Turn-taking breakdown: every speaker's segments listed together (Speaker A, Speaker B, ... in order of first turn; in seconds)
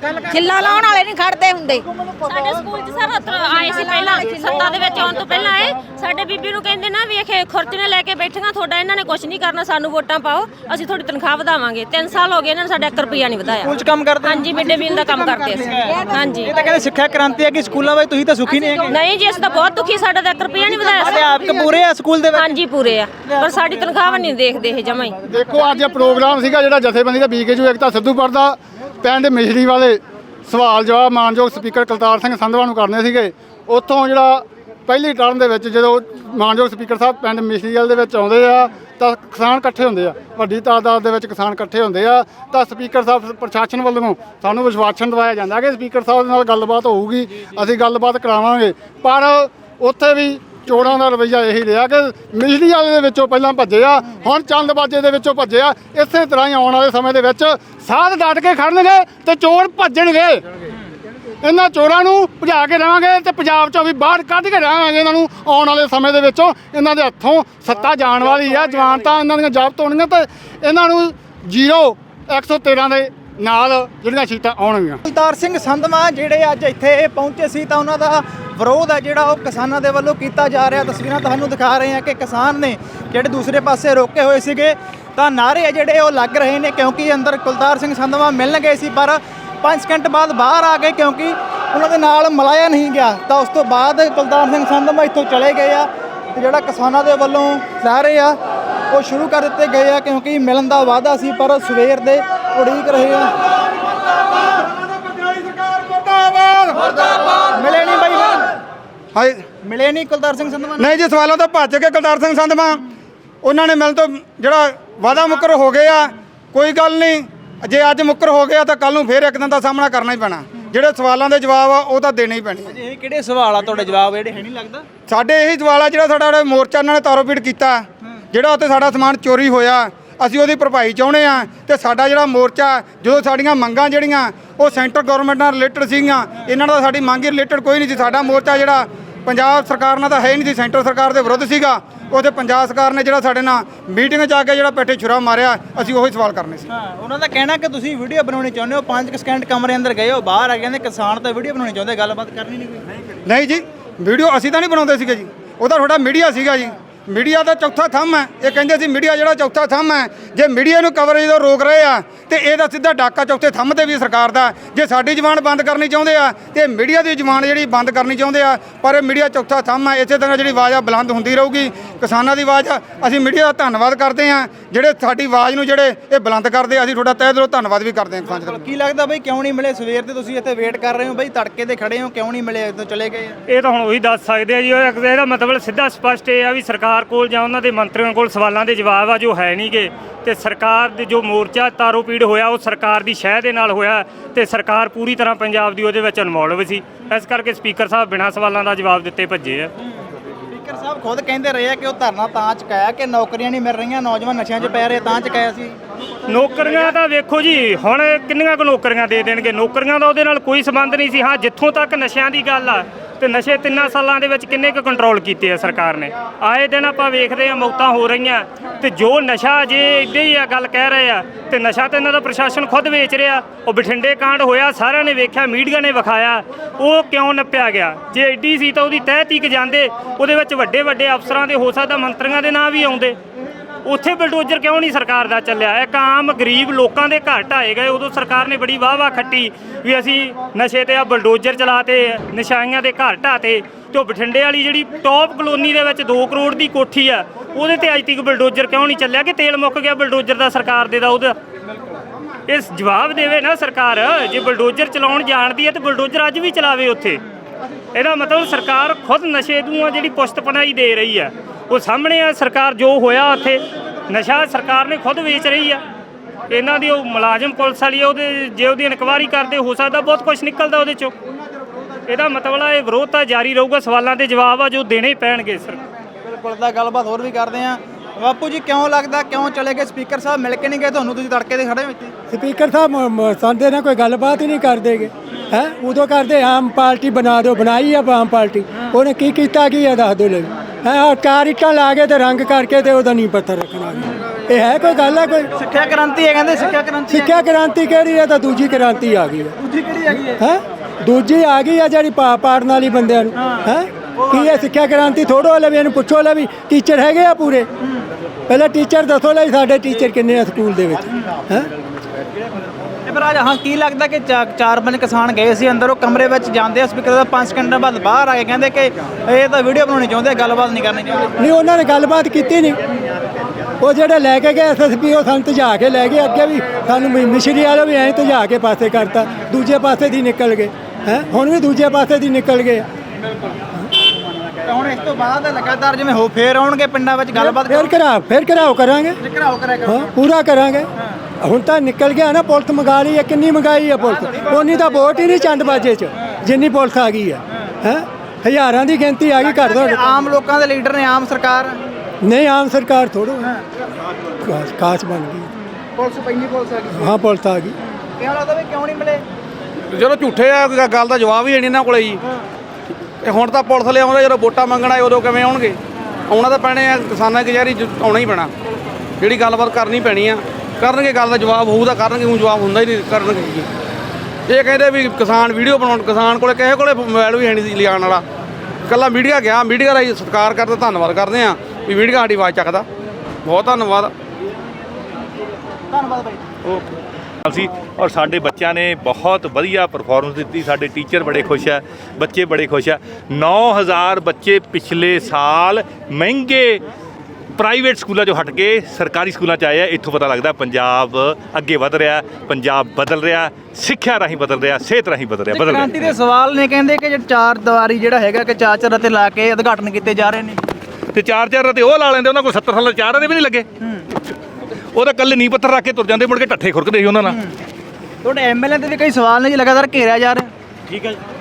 Speaker A: 0.3-1.9, 3.3-5.0
Speaker B: 2.3-13.7, 14.3-16.5, 18.9-21.1, 22.4-25.2
Speaker C: 13.5-19.0, 20.8-22.6, 23.4-23.9, 75.0-98.4, 98.9-103.3, 107.5-108.5, 109.6-111.0, 122.7-124.9, 146.7-152.9, 178.3-183.4, 200.5-205.8, 276.2-282.1, 295.6-297.4, 299.6-300.4, 303.4-304.6, 313.1-321.3, 334.6-337.9, 339.2-340.1, 344.5-344.9, 349.6-351.8, 356.0-357.1, 358.2-359.2, 385.9-386.4, 405.5-410.6, 417.2-417.5, 418.2-420.5
Speaker D: 25.3-60.4, 61.4-75.0
Speaker E: 109.2-109.5, 110.8-112.8, 113.4-122.7, 125.1-146.7, 153.2-178.6
Speaker F: 183.5-199.7, 206.3-233.2, 233.8-251.3, 252.5-257.2, 257.9-265.8, 266.5-271.1, 272.1-275.8
Speaker G: 282.3-295.5, 297.1-299.5, 300.4-307.7, 308.5-311.7, 321.4-322.8, 323.8-332.9, 337.4-339.2, 339.9-340.9, 341.4-350.0, 352.2-353.5, 354.4-355.5, 356.9-357.8
Speaker H: 359.9-362.2, 363.2-365.8, 366.3-368.5, 369.2-373.7, 374.5-378.2, 378.9-382.9, 383.4-384.1
Speaker I: 387.5-396.8, 397.6-406.1, 411.1-413.7, 414.9-417.4